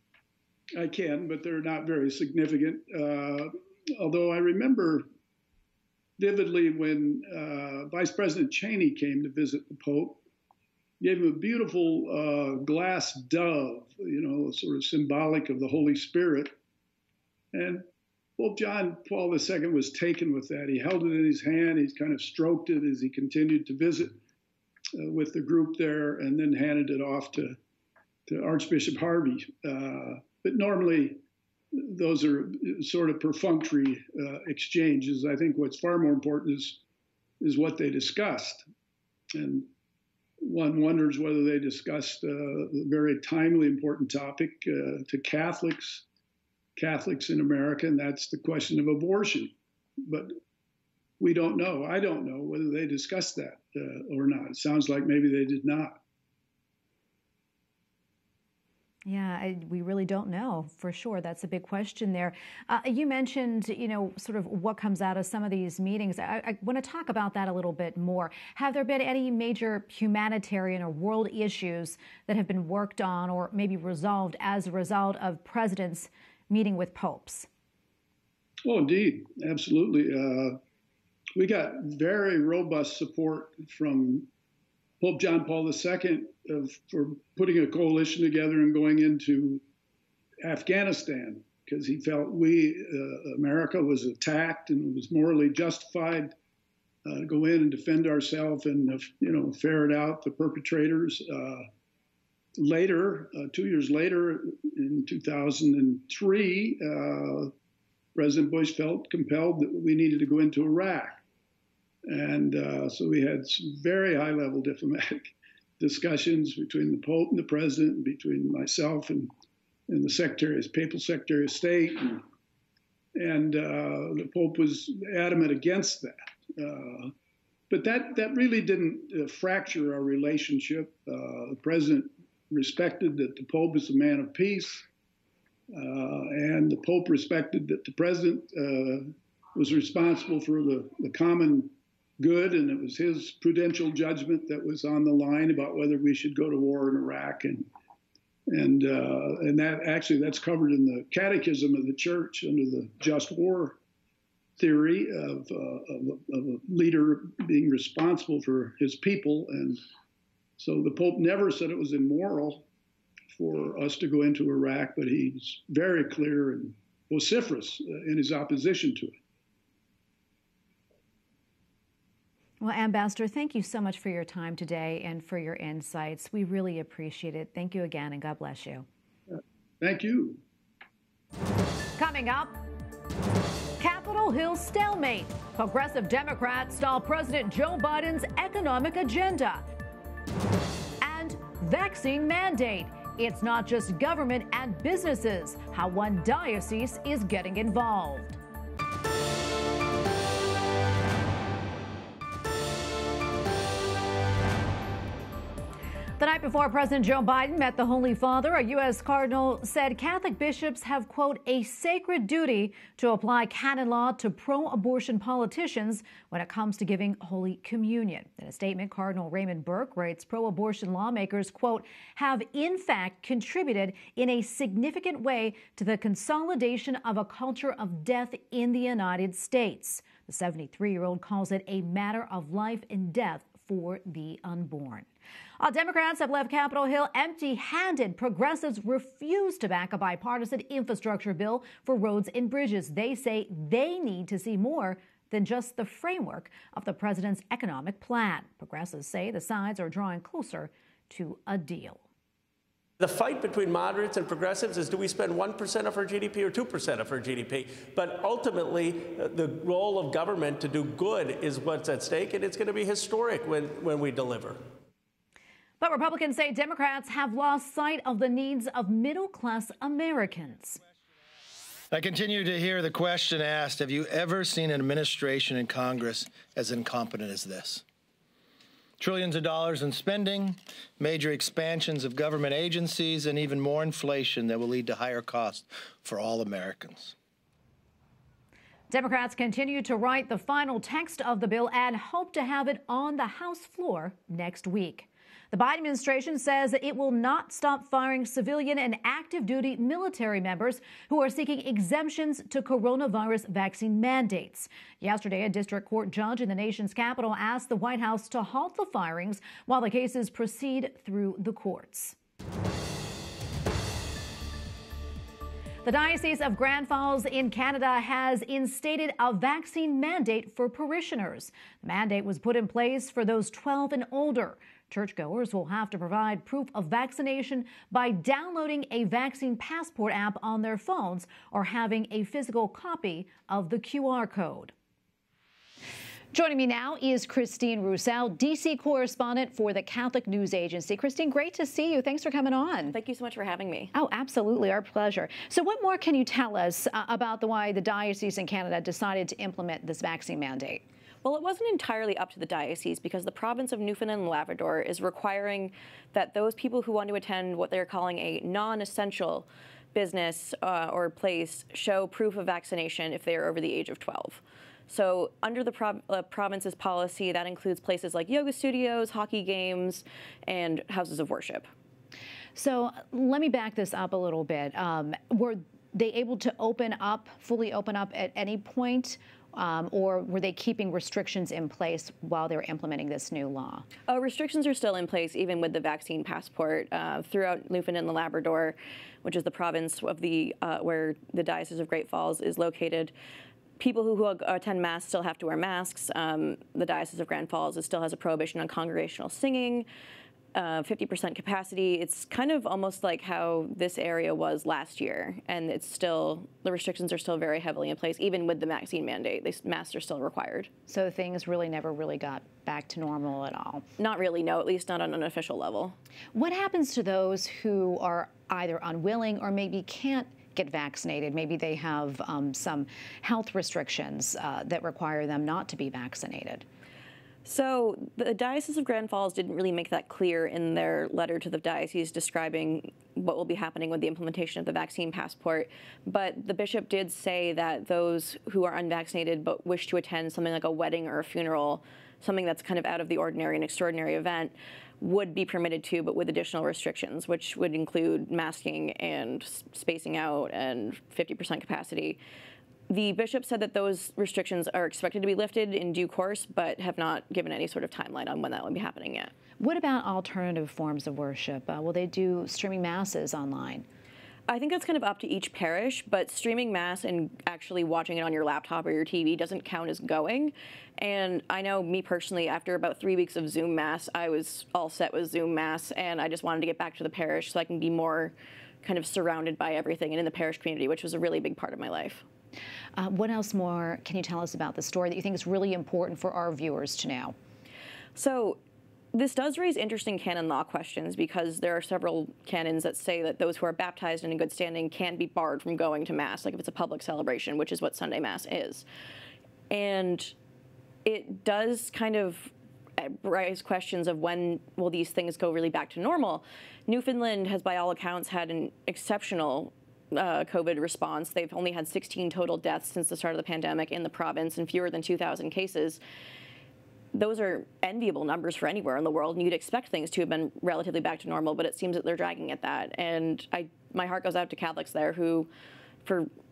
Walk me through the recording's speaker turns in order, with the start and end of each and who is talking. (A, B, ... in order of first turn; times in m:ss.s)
0:00.7-0:05.0 A
0:06.2-0:10.2 A
0:11.0-0:16.5 A
0:17.5-0:17.8 A
0:18.4-0:24.2 A
0:25.0-0:27.6 A
0:28.3-0:31.2 A
0:31.7-0:36.8 A
0:37.4-0:38.6 A
0:39.3-0:39.7 A
0:40.4-0:46.0 A
0:46.8-0:49.5 A
0:50.0-0:50.4 A
0:51.2-0:56.0 A
0:59.0-1:17.5 B
1:18.6-1:20.6 A
1:21.4-1:24.3 A
1:25.0-1:29.6 A
1:30.4-1:36.3 A
1:37.0-1:41.7 A
1:42.6-1:47.5 A
1:48.1-1:51.2 A
1:52.1-1:59.3 A
1:59.9-2:02.2 A
2:03.2-2:07.1 A
2:07.7-2:14.8 A
2:15.7-2:27.7 A
2:28.5-2:33.8 A
2:34.6-2:39.8 A
2:40.6-2:42.6 A
2:43.3-2:49.1 A
2:52.6-2:58.8 B
2:59.8-3:00.4 A
3:02.0-3:02.6 B
3:03.8-3:09.6 B
3:11.0-3:18.4 B
3:26.2-3:55.1 B
3:55.6-4:12.0 B
4:13.0-4:24.6 C
4:25.8-4:30.8 B
4:31.9-4:37.8 D
4:39.0-4:47.1 D
4:48.9-5:12.2 B
5:15.8-5:34.7 B
5:36.3-5:42.9 B
5:42.9-5:43.9 E
5:43.9-5:50.8 B
5:51.2-6:11.7 E
6:12.5-6:23.8 B
6:24.1-6:33.1 E
6:33.8-6:39.9 E
6:40.5-6:50.7 E
6:50.9-6:53.8 B
6:54.0-6:56.0 E
6:56.3-7:06.6 B
7:07.4-7:32.2 E
7:32.9-7:39.3 E
7:39.6-7:43.8 B
7:44.5-8:02.2 E
8:03.0-8:07.4 B
8:08.1-8:08.6 E
8:09.1-8:18.8 E
8:19.7-8:20.3 E
8:21.0-8:36.0 E
8:37.1-8:45.5 E